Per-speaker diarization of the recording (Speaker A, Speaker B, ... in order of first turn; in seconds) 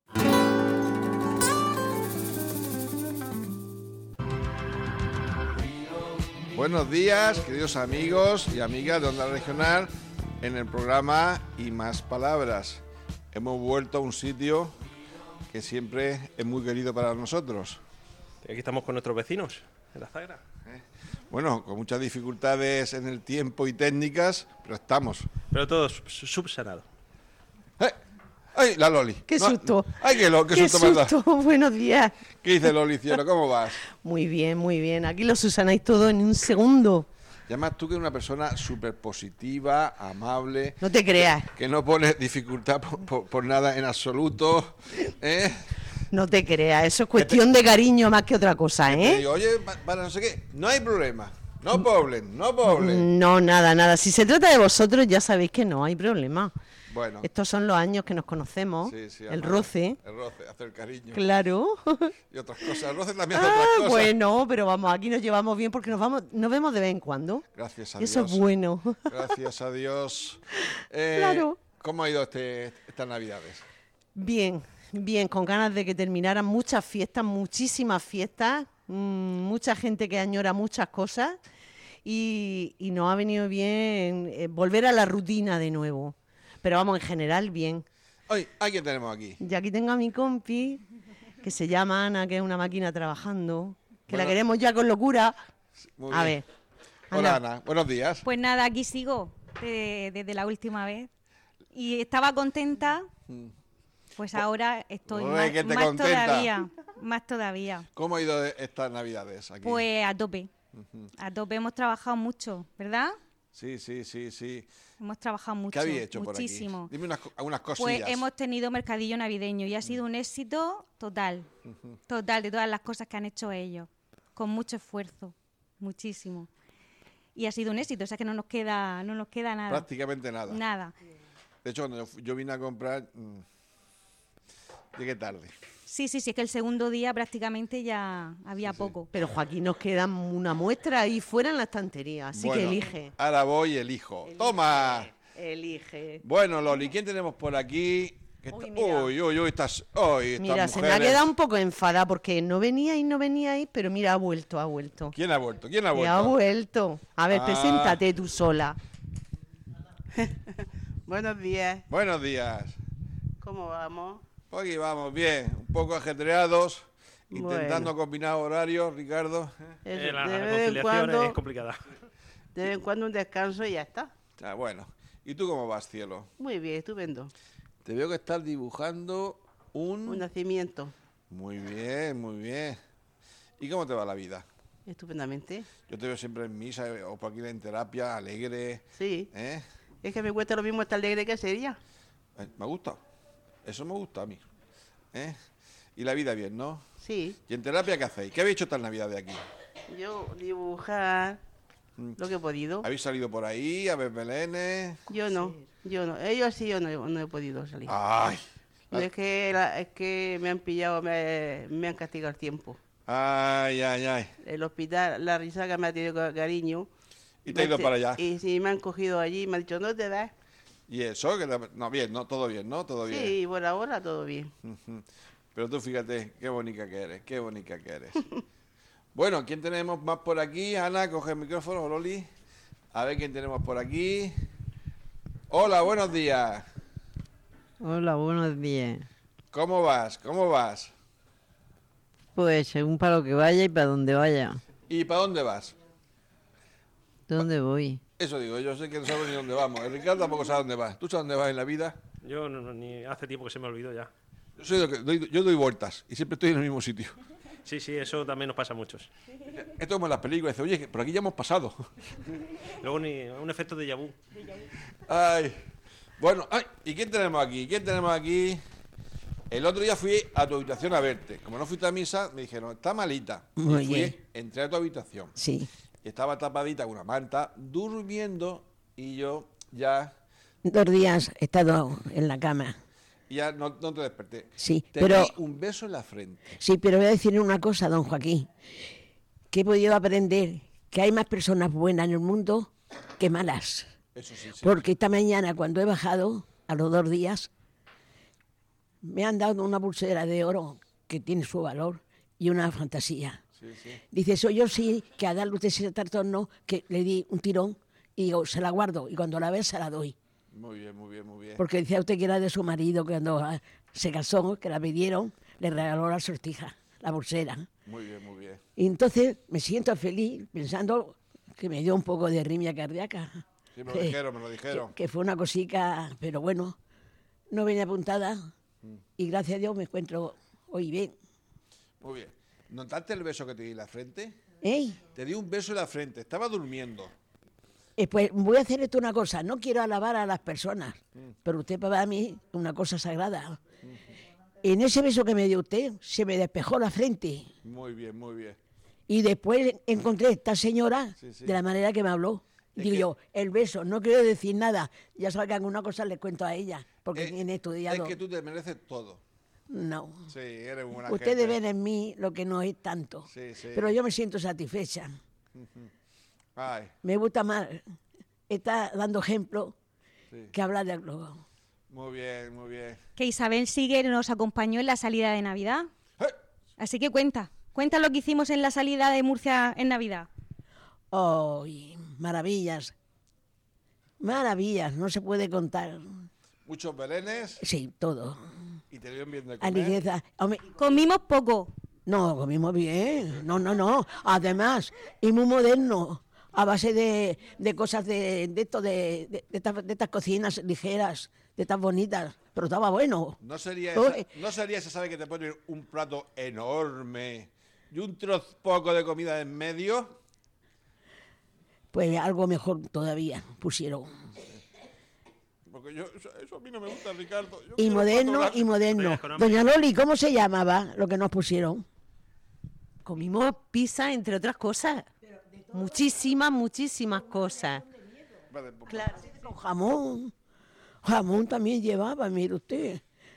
Speaker A: 6.5-14.8, 15.5-17.8, 20.7-25.3, 28.6-31.2, 32.4-33.9, 37.5-45.6, 47.1-47.4, 48.8-53.1, 56.9-57.3, 58.8-61.2, 62.3-64.1, 67.5-68.5, 69.1-73.6, 88.3-89.4, 94.1-94.4, 96.0-96.4, 97.1-98.2, 105.1-106.5, 108.0-109.9, 110.8-111.1, 113.5-114.7, 115.7-118.2, 129.7-130.6, 131.6-133.4, 135.0-135.5, 138.6-138.9, 142.3-145.1, 146.2-151.3, 155.1-156.4, 157.3-158.0, 161.9-162.8, 164.5-169.6, 174.4-176.3, 177.8-180.3, 181.3-182.8, 183.6-184.5, 185.8-189.6, 192.4-193.0, 193.7-194.4, 196.0-196.8, 197.5-199.4, 202.8-205.0, 207.9-209.1, 213.1-214.3, 217.5-218.2, 220.9-223.4, 224.7-228.2, 229.2-232.3, 232.9-234.3, 235.5-236.7, 239.5-240.9, 244.9-245.8, 248.2-252.0, 254.6-257.2, 259.5-261.8, 265.1-265.6, 266.2-268.6, 269.5-275.4, 276.0-280.1, 283.3-286.5, 294.1-294.9, 303.6-304.0, 310.5-311.6, 317.9-318.6, 323.7-324.9, 332.0-334.4, 335.1-337.1, 347.6-348.6, 351.2-351.6, 352.8-353.1, 357.1-359.2, 360.3-361.6, 363.3-363.9, 365.6-365.9, 366.6-366.9, 371.9-373.0, 386.7-387.6, 388.9-390.0, 403.4-410.2, 415.7-418.7, 428.5-429.2
Speaker B: 18.4-20.4, 25.5-26.9, 170.0-171.9, 252.2-254.1, 257.6-259.1, 262.8-264.1, 418.9-419.6
Speaker C: 29.3-32.2, 34.0-37.1, 40.8-41.5, 46.1-49.2, 52.6-56.5, 57.2-60.0, 61.1-62.1, 63.3-67.5, 68.0-69.2, 71.1-71.6, 74.2-81.4, 82.0-87.8, 89.4-90.8, 91.4-95.4, 96.1-96.5, 97.1-97.4, 139.1-143.1, 144.3-146.2, 148.5-149.1, 150.4-155.2, 155.9-158.8, 423.0-425.1, 425.7-427.9, 428.9-429.3
Speaker D: 98.2-101.1, 101.7-103.1, 104.2-107.9, 109.6-110.5, 111.2-113.2, 115.0-116.9, 117.8-121.5, 122.1-126.5, 127.3-129.9, 130.5-130.9, 135.9-139.1, 373.2-375.9, 376.8-380.3, 390.8-391.7
Speaker E: 160.2-161.8, 163.4-164.2, 167.3-167.9, 169.9-171.4, 172.6-174.1, 176.4-177.3, 180.1-180.9, 184.9-185.7, 189.0-189.3, 190.0-191.8, 197.0-197.4, 199.9-201.4, 202.2-202.9, 205.1-208.0, 208.9-212.8, 214.4-216.9, 217.5-220.3, 223.1-224.5
Speaker F: 237.8-239.1, 242.3-244.6, 247.3-248.0
Speaker G: 273.6-274.2, 275.4-275.7, 280.6-282.8, 284.6-285.4, 286.6-288.5, 289.5-293.9, 294.6-297.5, 299.0-303.4, 304.1-310.1, 311.6-317.7, 318.8-326.8, 327.5-328.4, 329.2-331.1, 334.6-335.0, 338.0-343.6, 344.6-347.5, 349.1-358.2, 359.7-360.3, 361.0-365.1, 367.0-367.8, 368.5-369.8, 370.5-371.4, 381.1-382.9, 384.2-386.1, 387.6-388.4, 389.6-390.6, 392.1-403.4, 403.9-404.3, 411.9-414.1, 417.8-421.8, 429.3-430.3, 431.0-433.0